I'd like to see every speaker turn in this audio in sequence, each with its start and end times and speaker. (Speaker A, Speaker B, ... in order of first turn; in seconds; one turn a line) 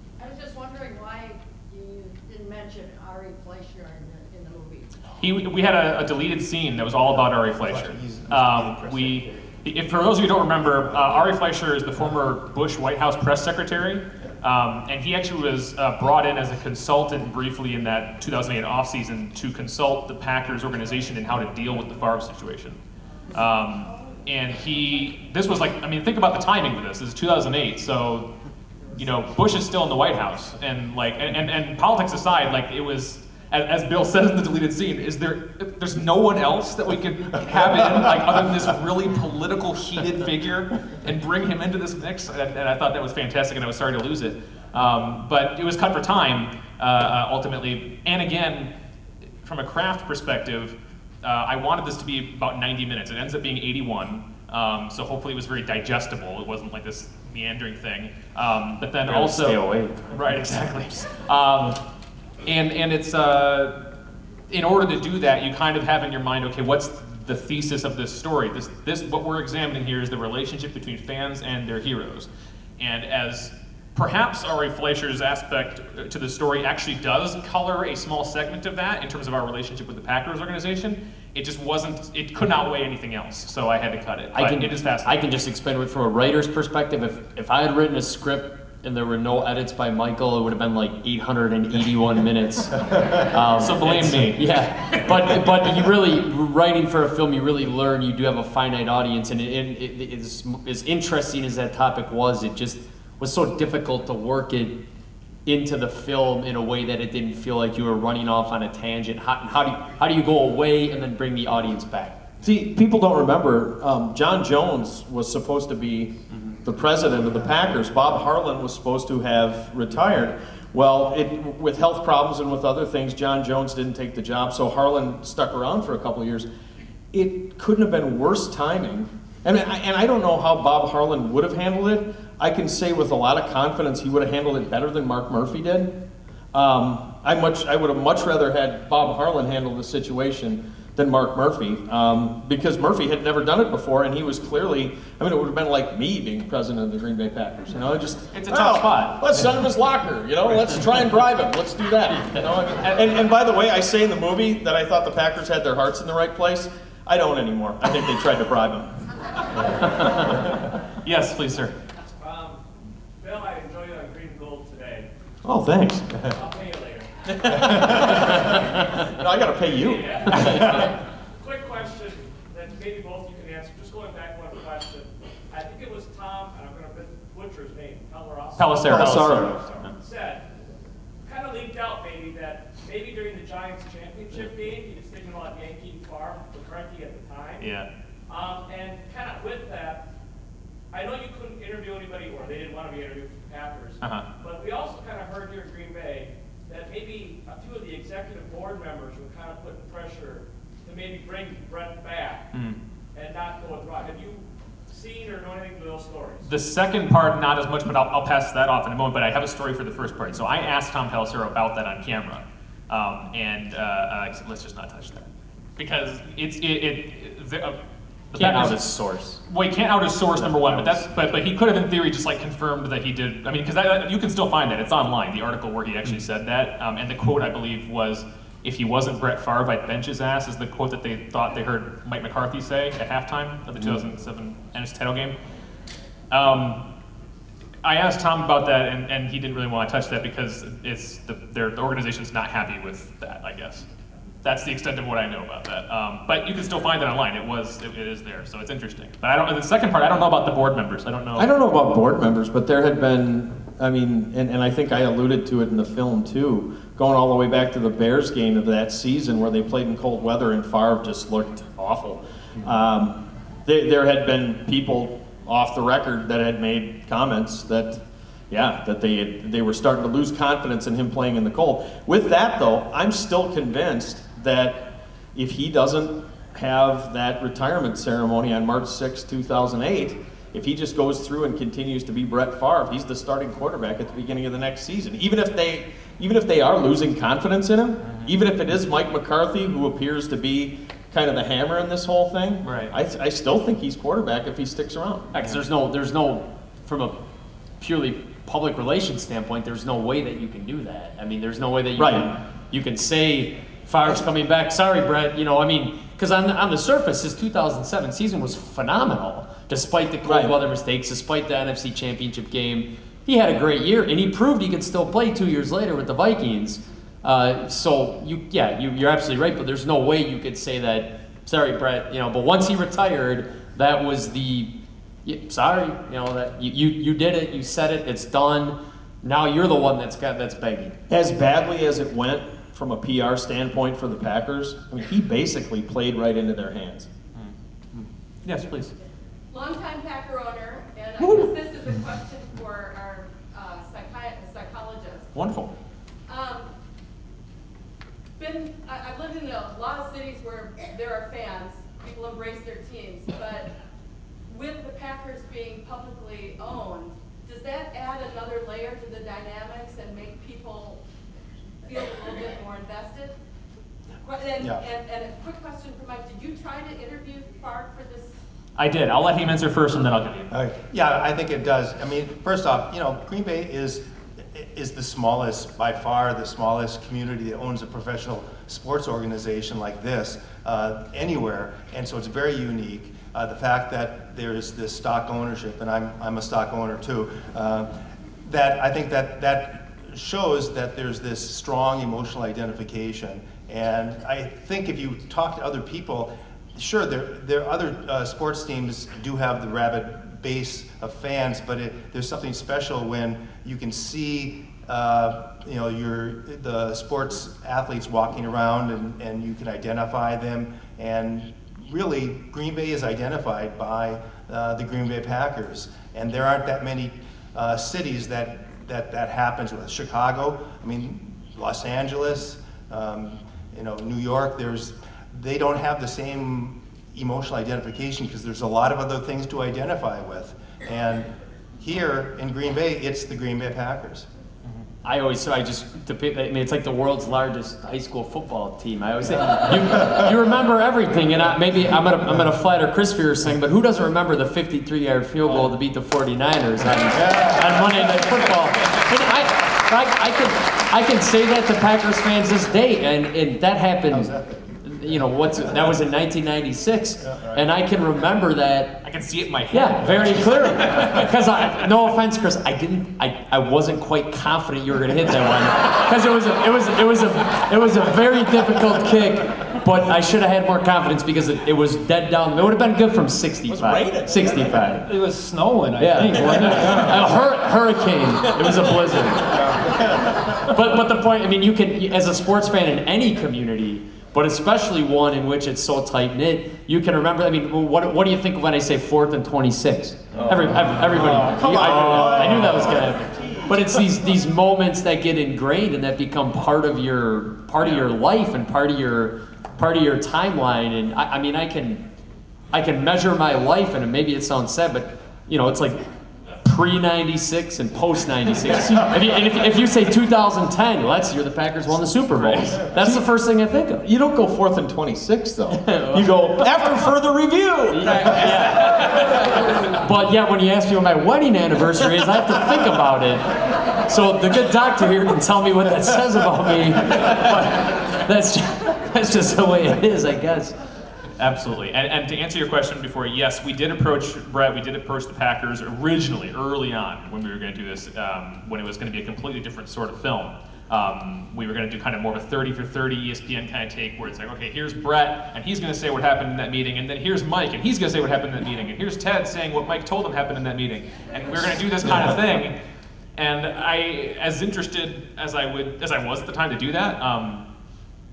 Speaker A: 0.2-5.0
Speaker B: 5.2-22.8
Speaker C: 7.1-9.5
Speaker C: 10.9-11.2
Speaker B: 23.3-28.3
Speaker B: 28.9-48.7
Speaker B: 49.4-59.6
Speaker D: 59.1-60.4
Speaker B: 60.1-61.8
Speaker B: 62.5-63.8
Speaker B: 64.5-72.3
Speaker B: 72.8-85.2
Speaker D: 84.3-104.8
Speaker B: 93.5-94.4
Speaker D: 105.5-112.2
Speaker E: 112.4-126.5
Speaker E: 127.1-135.9
Speaker E: 136.5-158.9
Speaker B: 148.3-149.4
Speaker B: 159.9-161.7
Speaker F: 162.2-162.6
Speaker F: 163.2-165.1
Speaker E: 165.4-166.3
Speaker F: 166.3-168.6
Speaker E: 167.3-170.8
Speaker F: 169.5-180.5
Speaker B: 178.6-179.6
Speaker E: 178.8-179.6
Speaker F: 181.2-187.7
Speaker B: 187.6-187.9
Speaker F: 188.3-190.0
Speaker F: 190.9-202.5
Speaker B: 194.0-194.3
Speaker B: 202.5-202.8
Speaker F: 203.1-206.5
Speaker B: 206.4-217.8
Speaker B: 218.3-218.8
Speaker D: 218.4-219.4
Speaker B: 219.5-235.3
Speaker D: 220.3-221.1
Speaker B: 236.3-236.8
Speaker B: 237.8-243.8
Speaker B: 244.4-251.5
Speaker E: 251.3-295.3
Speaker B: 288.0-288.3
Speaker B: 292.6-292.9
Speaker D: 295.3-297.2
Speaker D: 297.8-324.7
Speaker E: 302.0-302.3
Speaker E: 310.2-310.6
Speaker D: 325.3-330.9
Speaker E: 331.1-337.1
Speaker B: 338.4-338.9
Speaker A: 339.5-345.3
Speaker B: 341.2-341.5
Speaker B: 345.3-345.7
Speaker A: 346.3-346.7
Speaker A: 348.4-353.7
Speaker A: 354.5-361.0
Speaker A: 361.9-363.4
Speaker A: 364.2-368.4
Speaker B: 368.8-370.5
Speaker C: 370.5-387.9
Speaker C: 388.4-434.3
Speaker D: 435.1-459.1
Speaker C: 454.1-454.8
Speaker B: 459.0-461.3
Speaker D: 459.7-475.1
Speaker E: 473.7-475.0
Speaker G: 475.0-477.2
Speaker D: 476.0-502.0
Speaker E: 476.4-477.6
Speaker E: 478.5-480.4
Speaker E: 490.3-494.1
Speaker B: 491.6-492.7
Speaker D: 502.7-506.0
Speaker D: 506.6-514.1
Speaker E: 508.8-509.1
Speaker B: 512.4-512.9
Speaker E: 514.0-519.0
Speaker D: 515.8-516.3
Speaker D: 517.9-530.8
Speaker B: 531.4-552.8
Speaker B: 553.4-557.6